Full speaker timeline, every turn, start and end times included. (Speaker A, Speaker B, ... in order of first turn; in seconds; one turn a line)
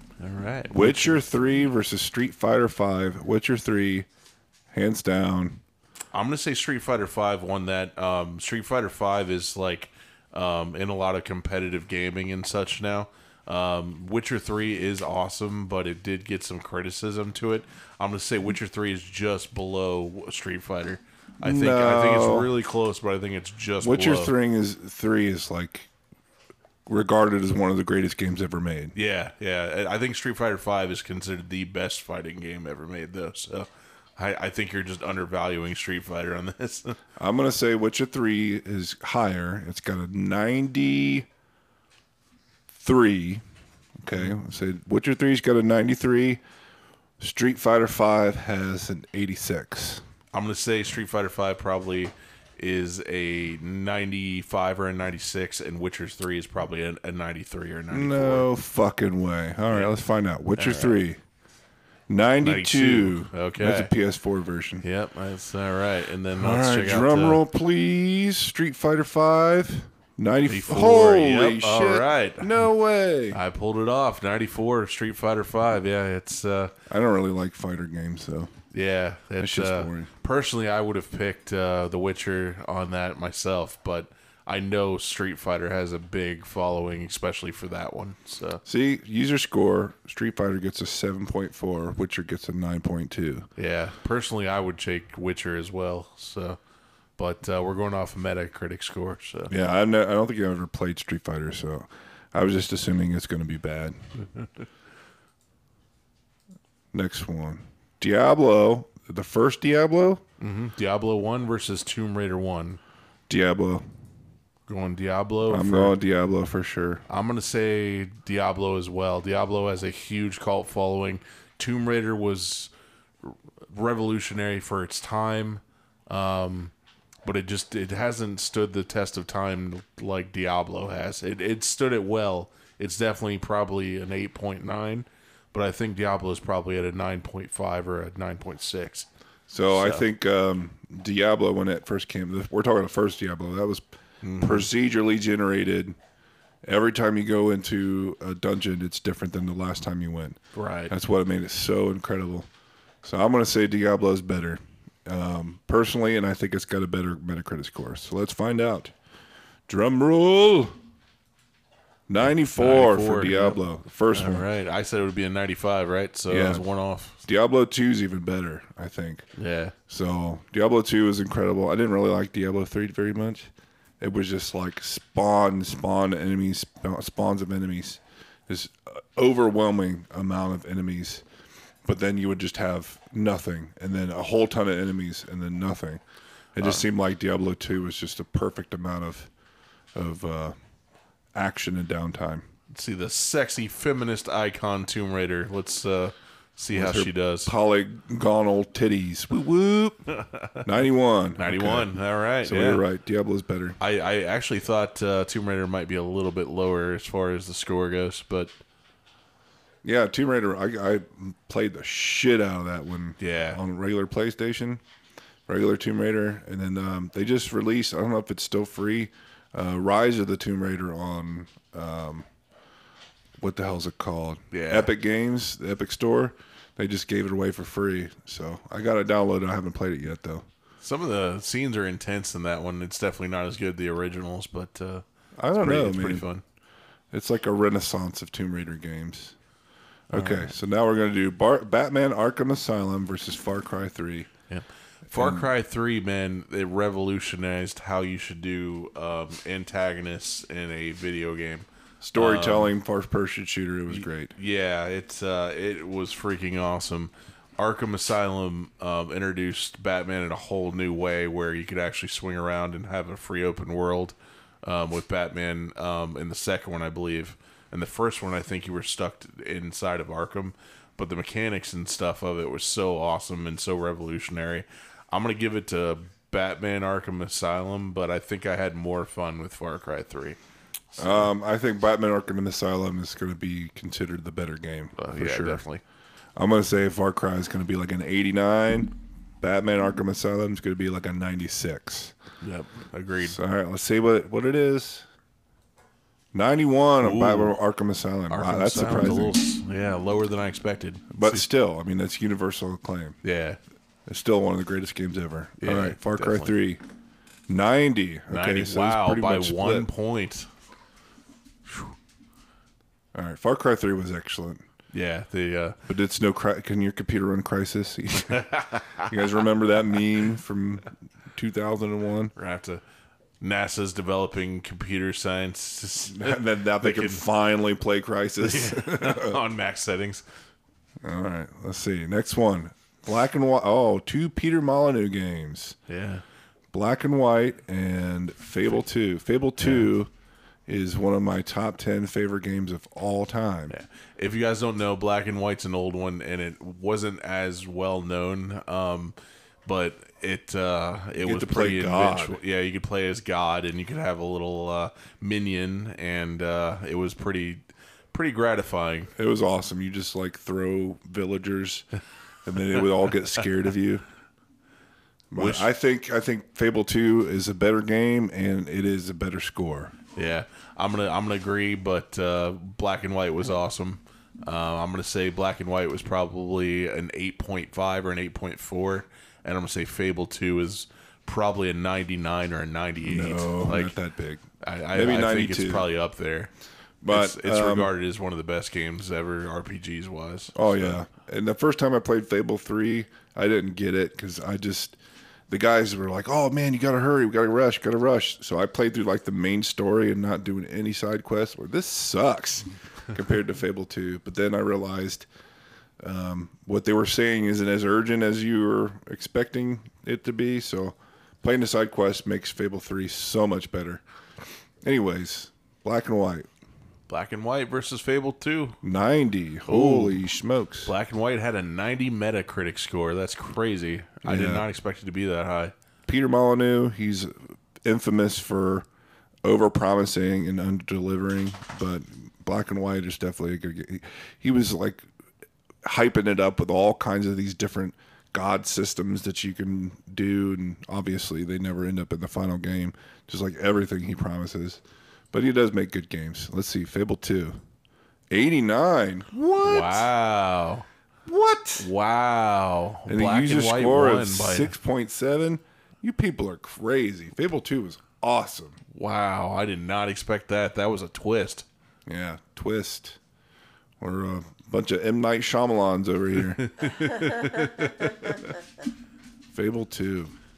Speaker A: 0.2-1.2
Speaker B: 0.7-4.1
Speaker B: 4.7-5.6
Speaker A: 6.1-24.3
Speaker B: 21.4-22.5
Speaker B: 23.8-25.9
Speaker B: 26.9-28.9
Speaker A: 28.9-37.0
Speaker B: 37.2-41.3
Speaker B: 42.7-43.4
Speaker B: 44.0-46.4
Speaker B: 47.2-50.0
Speaker A: 50.3-58.5
Speaker B: 57.9-61.2
Speaker A: 60.6-61.0
Speaker B: 62.1-64.8
Speaker A: 62.4-63.9
Speaker A: 64.8-67.4
Speaker B: 66.3-73.4
Speaker A: 70.5-72.6
Speaker A: 73.3-76.7
Speaker B: 76.9-78.5
Speaker A: 78.7-88.6
Speaker B: 79.4-80.1
Speaker B: 88.7-93.5
Speaker A: 93.6-96.6
Speaker A: 97.2-99.5
Speaker B: 99.5-104.0
Speaker B: 106.9-110.2
Speaker A: 110.4-112.8
Speaker B: 113.3-113.8
Speaker A: 114.7-116.0
Speaker B: 115.5-117.0
Speaker A: 117.1-122.7
Speaker A: 123.2-126.7
Speaker A: 127.2-139.1
Speaker B: 139.5-143.8
Speaker A: 139.7-140.0
Speaker A: 144.2-144.7
Speaker B: 144.4-145.9
Speaker B: 146.7-150.4
Speaker A: 150.5-150.9
Speaker B: 150.9-152.5
Speaker B: 153.0-158.9
Speaker B: 159.7-160.8
Speaker B: 162.1-164.5
Speaker A: 162.6-167.2
Speaker B: 166.3-166.7
Speaker B: 167.2-169.3
Speaker A: 169.4-169.8
Speaker B: 169.9-181.2
Speaker B: 181.8-186.0
Speaker B: 186.6-189.3
Speaker A: 186.6-186.8
Speaker B: 189.9-190.6
Speaker B: 191.3-192.4
Speaker A: 192.7-197.5
Speaker B: 196.7-200.1
Speaker A: 200.2-200.7
Speaker B: 200.6-201.9
Speaker A: 201.4-202.8
Speaker B: 202.4-203.8
Speaker A: 203.8-208.5
Speaker B: 209.8-214.8
Speaker A: 213.2-213.6
Speaker B: 215.5-222.3
Speaker B: 223.4-230.4
Speaker A: 224.5-224.9
Speaker A: 230.8-235.0
Speaker B: 235.4-236.3
Speaker A: 235.6-236.4
Speaker B: 237.1-239.3
Speaker B: 240.1-244.3
Speaker A: 240.1-240.5
Speaker A: 244.5-252.7
Speaker B: 245.1-245.5
Speaker B: 252.0-254.3
Speaker A: 253.9-280.4
Speaker A: 280.9-281.3
Speaker B: 281.0-285.6
Speaker A: 285.0-285.8
Speaker B: 286.4-292.1
Speaker A: 292.4-293.4
Speaker B: 293.2-295.1
Speaker B: 296.3-299.4
Speaker A: 297.0-297.6
Speaker A: 298.3-301.4
Speaker B: 301.1-303.2
Speaker A: 303.2-303.6
Speaker B: 304.1-306.8
Speaker A: 305.6-306.5
Speaker B: 307.5-309.9
Speaker A: 308.3-310.5
Speaker B: 313.1-314.6
Speaker A: 314.9-315.8
Speaker B: 315.9-318.5
Speaker A: 318.3-319.2
Speaker B: 319.0-322.3
Speaker A: 322.4-322.8
Speaker A: 323.4-327.2
Speaker B: 326.1-329.4
Speaker A: 328.4-330.2
Speaker B: 331.0-335.8
Speaker A: 335.9-336.2
Speaker B: 336.7-340.1
Speaker A: 339.6-339.9
Speaker B: 340.7-343.8
Speaker A: 343.7-349.1
Speaker A: 349.7-359.1
Speaker B: 351.2-352.4
Speaker B: 359.1-361.9
Speaker B: 362.4-364.0
Speaker B: 365.3-370.0
Speaker A: 365.4-365.7
Speaker A: 370.2-384.0
Speaker B: 383.0-385.9
Speaker A: 384.6-386.5
Speaker B: 387.0-387.9
Speaker A: 387.1-391.0
Speaker B: 390.6-395.0
Speaker B: 395.5-405.3
Speaker B: 406.0-414.0
Speaker B: 414.8-416.5
Speaker A: 417.1-418.8
Speaker B: 418.8-420.9
Speaker A: 419.7-420.2
Speaker A: 420.9-425.7
Speaker B: 424.2-424.7
Speaker B: 426.1-428.9
Speaker B: 429.4-435.1
Speaker B: 435.8-447.6
Speaker B: 448.3-450.1
Speaker A: 449.6-450.9
Speaker B: 451.3-451.9
Speaker A: 451.8-454.7
Speaker B: 453.1-458.8
Speaker A: 458.9-461.7
Speaker B: 462.1-463.2
Speaker B: 464.0-466.7
Speaker A: 466.5-468.5
Speaker B: 469.5-470.4